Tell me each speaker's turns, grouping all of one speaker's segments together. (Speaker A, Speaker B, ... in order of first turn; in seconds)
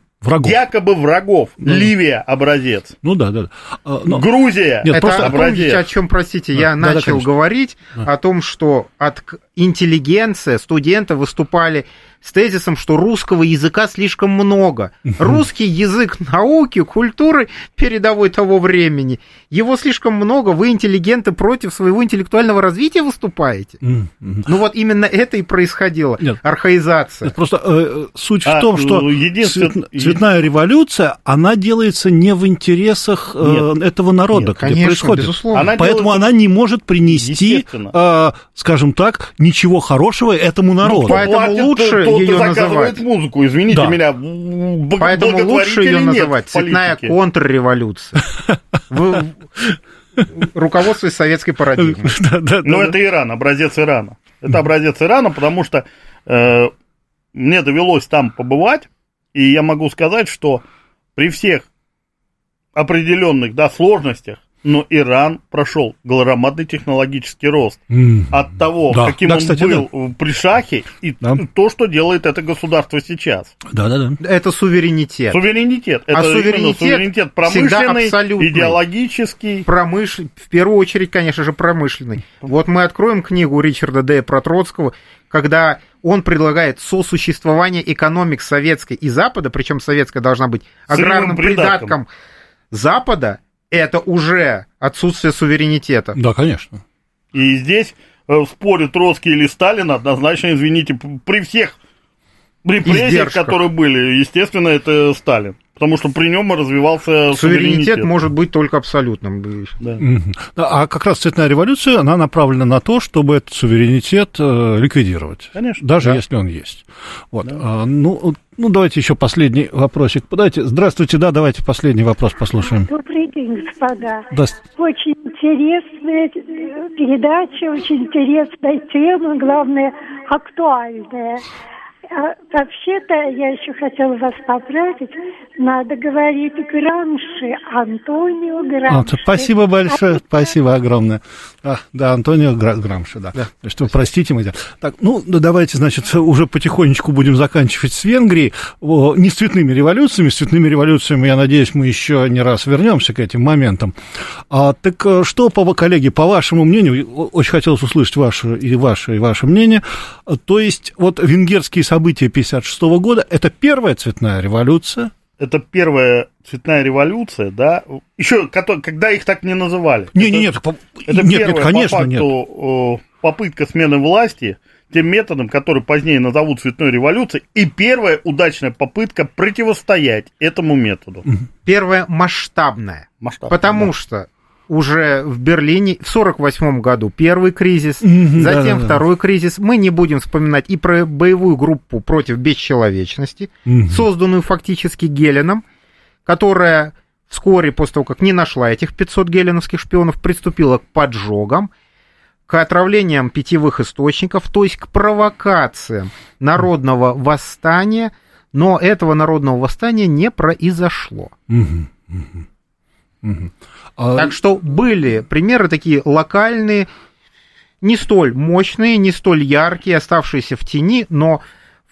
Speaker A: 0.2-0.6, 1.6-1.9, 3.0-4.3, 4.8-5.4, 6.5-7.3, 15.2-15.4, 23.8-24.5, 27.2-41.2, 43.7-44.0, 49.7-50.2, 51.8-53.0, 67.9-69.9, 73.7-74.2, 96.1-96.8, 110.0-122.9, 124.3-124.6, 138.9-154.0, 154.5-165.1, 170.1-172.3, 188.0-189.0, 193.7-194.1, 211.5-212.4, 213.2-214.3
Speaker B: 0.4-3.0, 4.1-5.8, 28.4-30.2, 33.4-33.7, 35.5-36.3, 37.1-37.9, 40.8-47.1, 52.6-56.7, 57.3-60.6, 61.1-61.6, 62.7-73.5, 75.3-79.6, 90.9-92.0, 97.3-101.7, 102.6-108.1, 115.5-116.1, 165.4-170.5, 171.1-181.2, 183.2-183.9
Speaker C: 4.9-23.8, 24.4-27.3, 34.6-35.7, 41.0-43.0, 45.0-48.3, 48.9-49.7, 50.3-52.2, 74.2-75.4, 76.1-78.8, 79.7-92.1, 92.7-96.2, 102.8-103.6, 107.3-109.7, 181.6-195.6, 196.2-201.7, 202.5-211.3, 214.1-216.9, 217.8-221.4
Speaker D: 122.7-131.4, 132.1-140.5